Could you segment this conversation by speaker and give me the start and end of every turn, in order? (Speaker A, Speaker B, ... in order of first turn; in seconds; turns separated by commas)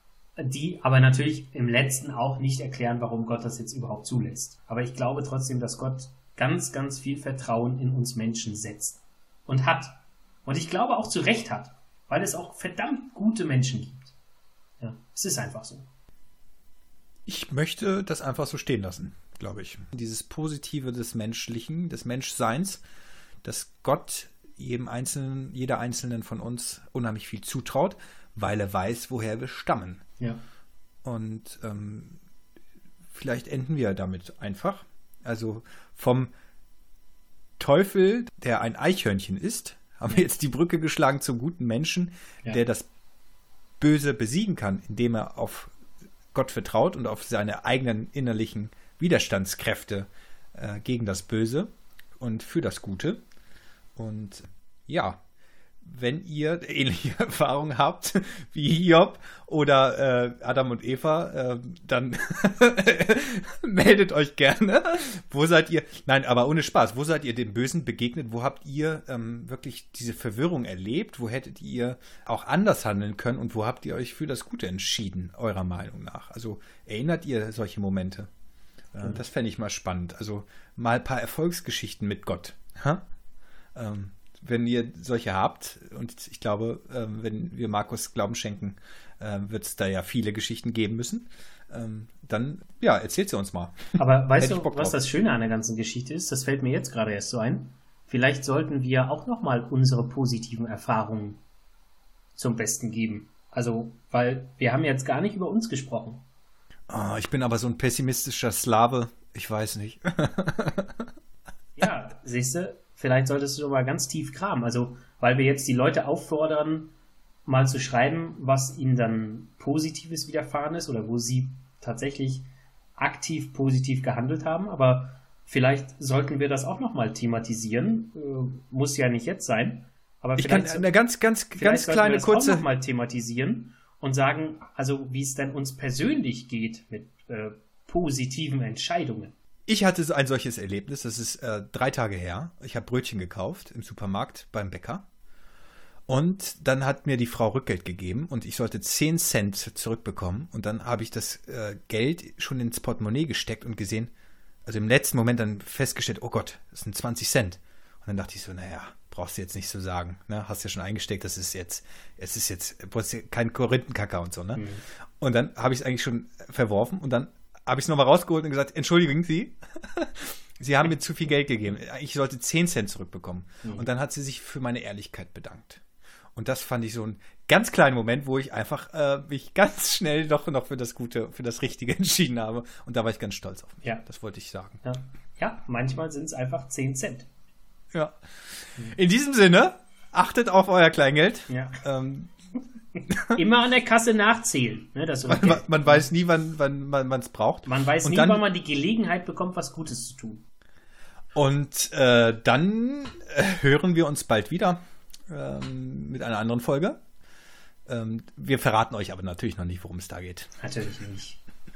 Speaker A: 0.4-14.1, Speaker A: 14.8-15.9, Speaker B: 17.3-22.8, Speaker B: 23.4-30.0, Speaker B: 31.0-32.2, Speaker B: 33.1-36.3, Speaker B: 37.6-42.9, Speaker B: 43.8-45.7, Speaker B: 46.3-53.2, Speaker B: 54.0-55.2, Speaker B: 55.8-78.3, Speaker B: 78.9-83.0, Speaker B: 83.8-95.0, Speaker A: 94.0-101.4, Speaker A: 102.4-106.2, Speaker B: 106.9-111.1, Speaker A: 111.8-116.9, Speaker A: 117.5-122.5, Speaker A: 123.0-130.9, Speaker B: 130.4-132.6, Speaker A: 131.5-139.3, Speaker B: 139.7-145.1, Speaker B: 146.1-154.1, Speaker B: 154.7-164.7, Speaker A: 164.6-164.8, Speaker B: 165.2-175.8, Speaker B: 176.3-184.8, Speaker A: 184.8-187.3, Speaker B: 187.9-192.3, Speaker A: 191.5-191.8, Speaker B: 193.1-193.4, Speaker A: 193.3-196.1, Speaker B: 195.3-198.4, Speaker A: 197.7-200.4, Speaker B: 201.3-207.0, Speaker B: 207.9-210.5, Speaker A: 210.6-211.4